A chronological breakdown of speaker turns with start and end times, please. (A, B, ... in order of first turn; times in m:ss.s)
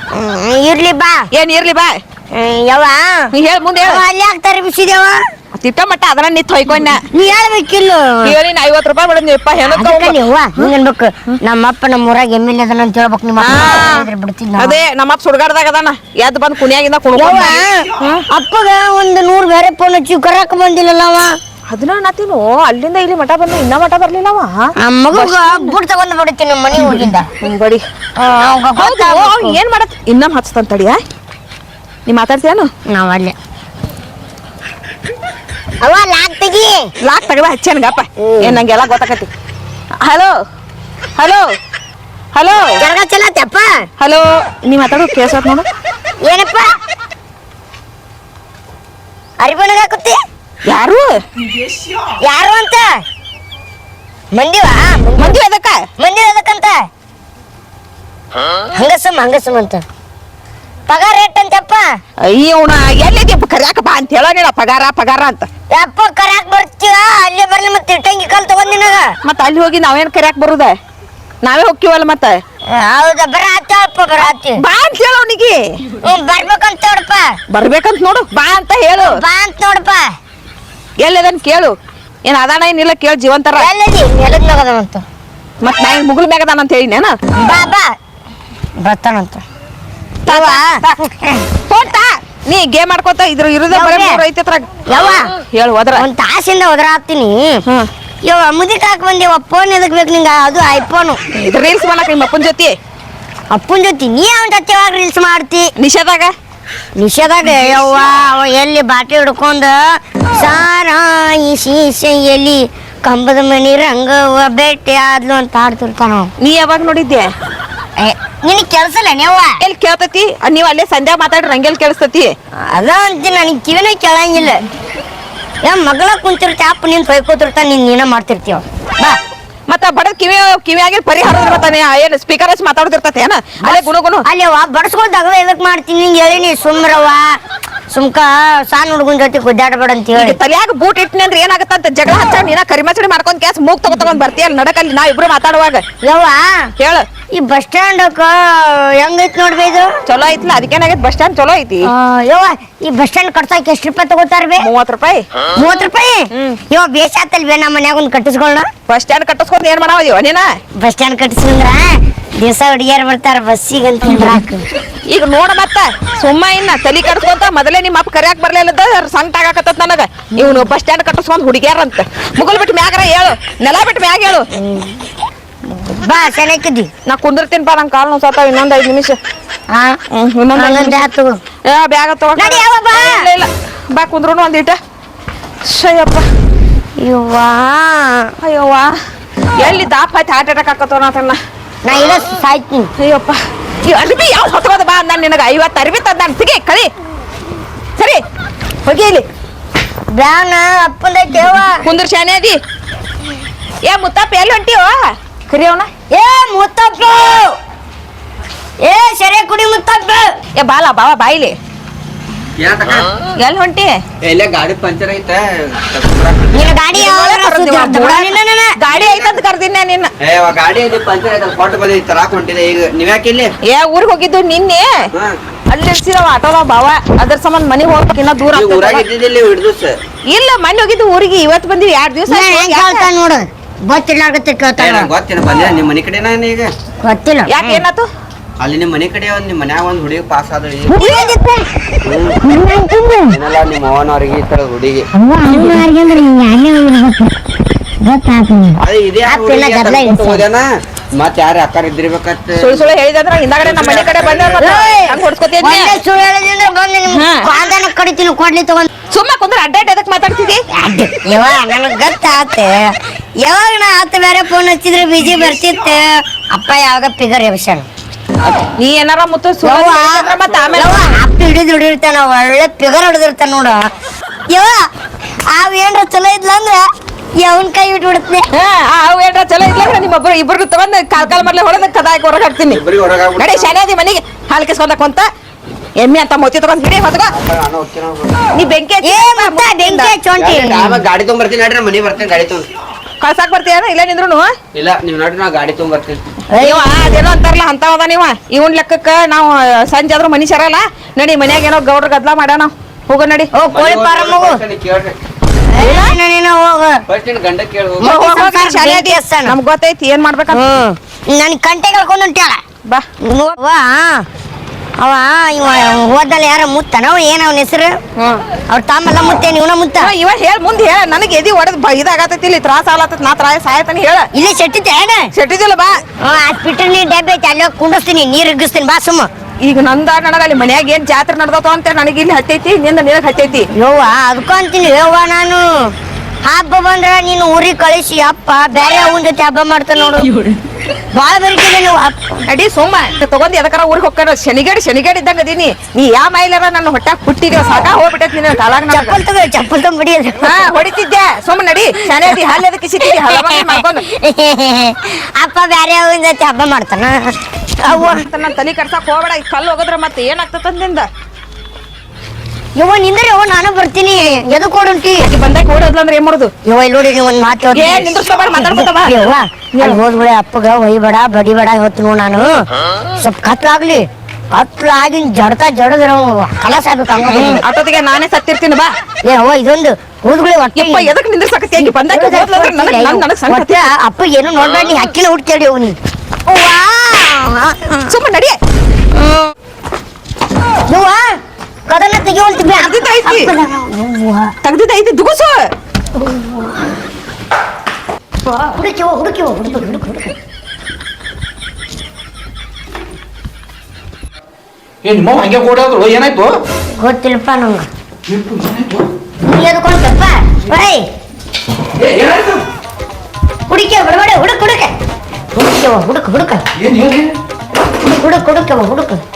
0:00.1-0:01.3 A
0:01.3-0:01.9 B
0:02.3-0:03.3 A
0:03.3-0:04.0 B
0:03.8-0:05.2 A
0:05.6-0:07.0 B
0:07.1-0:08.4 A
0:08.2-0:10.7 B
0:09.6-0:14.8 A
0:13.4-0:18.2 B
0:17.1-0:21.4 A
0:21.7-0:25.8 B
0:24.8-0:27.3 A
0:27.4-0:27.8 B
0:28.2-0:29.6 A
0:28.8-0:31.0 B
0:32.0-0:32.7 B
0:32.9-0:33.3 A
0:35.8-0:36.9 A
0:37.0-0:39.3 B
0:38.2-0:38.6 A
0:40.0-0:40.4 B
0:41.2-0:41.5 B
0:42.3-0:42.8 B
0:42.8-0:43.8 A
0:44.0-0:45.6 B
0:46.2-0:46.7 A
0:49.4-0:50.2 A
0:50.6-0:51.2 B
0:52.2-0:53.0 A
0:54.3-0:55.4 A
0:55.2-0:55.8 B
0:56.0-0:56.8 A
0:58.7-0:59.8 A
1:00.9-1:02.0 A
1:02.2-1:05.5 B
1:05.7-1:09.1 A
1:09.2-1:10.8 B
1:11.4-1:12.4 B
1:12.7-1:14.6 A
1:14.2-1:15.8 B
1:16.0-1:17.4 A
1:17.5-1:19.2 B
1:19.0-1:20.1 A
1:21.0-1:23.7 B
1:23.6-1:25.0 A
1:25.6-1:27.1 B
1:27.4-1:27.9 A
1:28.8-1:29.4 A
1:30.2-1:31.0 B
1:30.3-1:31.5 A
1:31.7-1:36.0 B
1:33.7-1:34.2 A
1:34.9-1:35.3 A
1:35.9-1:37.6 A
1:38.2-1:41.2 A
1:41.3-1:42.8 B
1:43.5-1:45.7 A
1:45.8-1:46.3 B
1:47.0-1:56.3 A
1:56.4-1:57.3 B
1:58.0-1:59.6 A
1:59.6-2:02.3 B
2:02.7-2:04.6 A
2:05.6-2:08.6 A
2:09.7-2:14.2 B
2:13.6-2:17.4 A
2:17.9-2:20.4 A
2:20.1-2:25.8 B
2:26.0-2:26.7 A
2:26.8-2:27.0 B
2:27.3-2:29.9 A
2:30.0-2:31.9 B
2:31.9-2:34.6 A
2:34.6-2:35.2 B
2:35.6-2:38.7 A
2:36.3-2:36.6 B
2:38.9-2:40.5 B
2:40.8-2:44.7 A
2:45.1-2:54.5 B
2:50.4-2:50.7 A
2:54.5-2:55.1 A
2:55.9-2:56.9 A
2:57.0-2:59.2 B
2:59.7-3:00.0 A
3:00.1-3:01.0 B
3:00.5-3:01.4 A
3:01.7-3:04.8 B
3:02.4-3:03.2 A
3:05.6-3:06.2 B
3:07.0-3:08.3 A
3:08.4-3:08.9 B
3:09.6-3:11.4 B
3:11.8-3:12.9 A
3:13.0-3:16.9 B
3:18.8-3:19.2 B
3:20.1-3:21.8 A
3:21.8-3:22.6 B
3:23.8-3:25.9 B
3:26.1-3:27.5 A
3:28.8-3:30.3 A
3:30.6-3:31.6 B
3:32.6-3:33.1 C
3:33.4-3:34.0 B
3:34.2-3:36.6 C
3:36.5-3:38.8 A
3:36.9-3:40.1 B
3:38.9-3:39.3 C
3:40.2-3:43.5 C
3:43.7-3:45.0 B
3:45.7-3:49.0 B
3:48.5-3:50.0 C
3:50.3-3:53.1 B
3:52.3-3:55.1 A
3:54.8-3:56.7 C
3:57.0-3:57.8 A
3:57.5-3:58.1 B
3:58.6-4:00.9 C
4:00.9-4:03.4 A
4:01.0-4:01.3 B
4:02.0-4:02.4 C
4:03.3-4:05.1 C
4:05.1-4:07.4 A
4:08.0-4:10.4 A
4:08.8-4:12.8 C
4:12.6-4:16.0 B
4:13.6-4:14.6 C
4:14.6-4:18.9 A
4:17.1-4:17.5 B
4:19.1-4:20.6 B
4:20.7-4:27.9 A
4:28.7-4:31.0 B
4:29.6-4:33.9 A
4:34.5-4:34.9 A
4:35.5-4:36.8 A
4:37.4-4:38.5 A
4:38.5-4:42.8 B
4:42.7-4:43.7 C
4:43.4-4:45.3 B
4:46.0-4:47.3 B
4:47.3-4:48.4 C
4:48.5-4:50.1 B
4:49.0-4:51.0 A
4:50.4-4:52.7 C
4:53.2-4:54.5 B
4:54.7-4:56.2 C
4:56.5-4:57.2 A
4:56.6-5:03.5 B
5:03.5-5:04.6 A
5:03.7-5:05.2 C
5:05.7-5:07.0 A
5:05.8-5:06.1 B
5:07.1-5:08.0 C
5:08.0-5:09.6 A
5:08.0-5:10.6 B
5:10.5-5:12.6 A
5:13.2-5:14.2 A
5:15.0-5:18.0 A
5:18.2-5:18.4 B
5:18.7-5:20.1 A
5:20.0-5:24.3 B
5:24.3-5:25.3 A
5:25.3-5:26.0 B
5:26.2-5:29.3 A
5:29.6-5:33.7 B
5:33.7-5:35.9 A
5:36.5-5:40.5 A
5:41.1-5:42.2 A
5:42.4-5:49.2 B
5:48.9-5:50.7 A
5:50.4-5:54.0 B
5:52.1-5:52.5 A
5:53.0-5:58.2 A
5:57.9-6:01.1 B
6:02.8-6:05.3 A
6:05.2-6:06.5 B
6:06.6-6:17.6 A
6:07.7-6:10.0 B
6:17.3-6:18.9 B
6:19.2-6:21.1 A
6:20.8-6:23.9 B
6:21.8-6:28.1 A
6:28.1-6:28.6 B
6:29.1-6:29.5 A
6:30.9-6:31.3 A
6:31.9-6:34.5 A
6:32.8-6:33.5 B
6:34.6-6:35.7 B
6:36.2-6:36.9 A
6:38.6-6:40.3 A
6:45.0-6:46.6 D
6:47.0-6:47.9 A
6:48.2-6:49.1 D
6:49.4-6:51.0 A
6:52.0-6:52.6 D
6:53.7-6:54.9 A
6:55.5-6:56.6 A
6:56.8-6:57.3 D
6:58.0-6:59.2 A